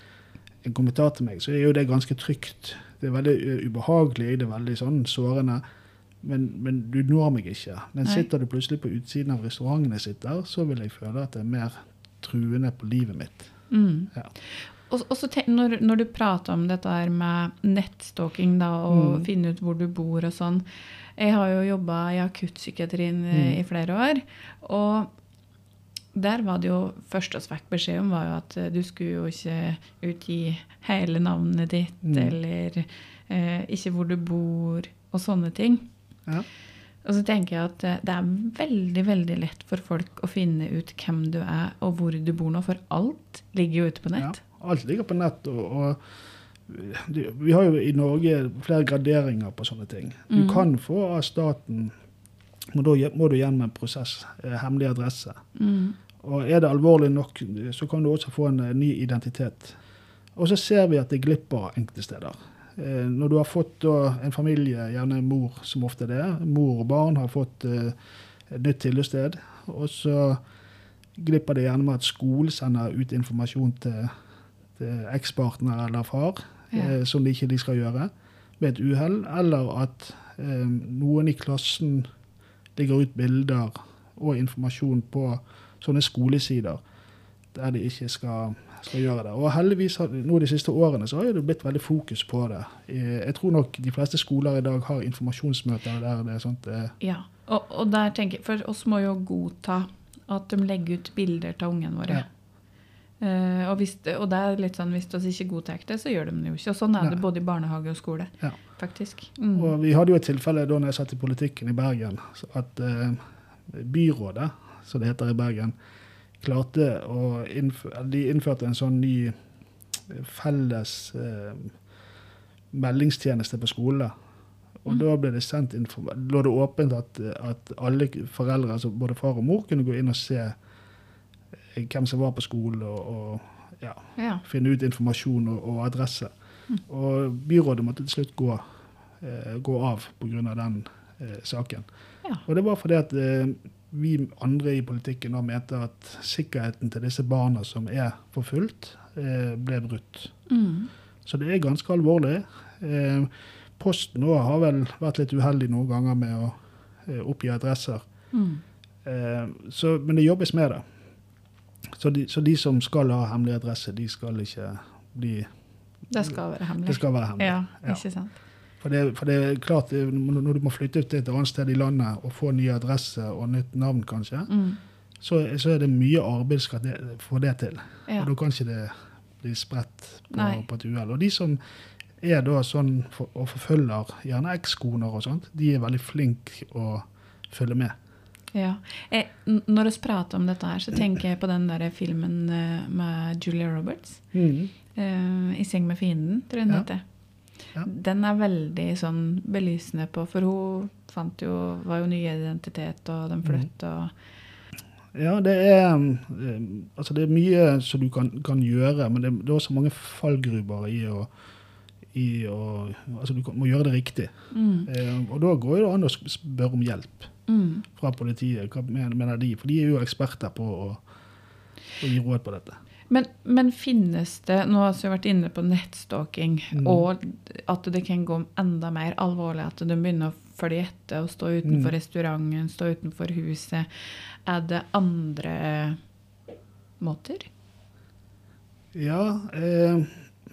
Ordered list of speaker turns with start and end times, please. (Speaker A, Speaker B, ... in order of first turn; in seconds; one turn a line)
Speaker A: 0.6-5.6
Speaker A: 6.2-13.5
Speaker B: 13.7-20.6
Speaker A: 18.9-19.3
Speaker B: 21.1-25.1
Speaker A: 23.3-23.6
Speaker B: 26.1-35.9
Speaker A: 32.0-32.4
Speaker B: 37.0-44.4
Speaker A: 44.2-46.0
Speaker A: 46.7-51.9
Speaker B: 50.3-50.6
Speaker A: 52.7-55.4
Speaker B: 55.5-56.0
Speaker A: 56.2-59.8
Speaker A: 60.4-68.0
Speaker A: 68.5-70.4
Speaker A: 71.2-74.1
Speaker A: 74.8-82.1
Speaker A: 82.8-86.8
Speaker A: 87.5-96.9
Speaker B: 97.0-102.3
Speaker B: 103.2-109.7
Speaker A: 109.5-115.7
Speaker A: 116.4-119.3
Speaker A: 120.1-121.8
Speaker A: 122.7-124.1
Speaker A: 124.8-130.6
Speaker A: 131.7-136.3
Speaker B: 134.2-134.4
Speaker A: 136.8-138.6
Speaker A: 139.2-141.9
Speaker A: 142.4-150.3
Speaker B: 150.5-150.9
Speaker A: 151.2-158.0
Speaker B: 158.3-158.6
Speaker A: 159.0-160.8
Speaker A: 161.9-165.5
Speaker B: 166.1-168.3
Speaker A: 166.2-168.0
Speaker A: 168.8-174.5
Speaker B: 174.5-174.8
Speaker A: 175.2-181.6
Speaker B: 180.3-180.6
Speaker A: 182.2-187.9
Speaker B: 188.5-194.2
Speaker A: 194.3-194.7
Speaker B: 194.9-197.0
Speaker B: 197.8-204.1
Speaker A: 205.1-211.3
Speaker A: 212.1-214.3
Speaker B: 214.5-214.9
Speaker A: 214.8-217.3
Speaker B: 217.5-217.8
Speaker A: 217.9-221.0
Speaker A: 222.0-222.8
Speaker B: 223.1-233.9
Speaker A: 226.7-227.0
Speaker A: 231.6-231.9
Speaker B: 234.4-236.0
Speaker B: 237.0-237.5
Speaker A: 238.9-240.2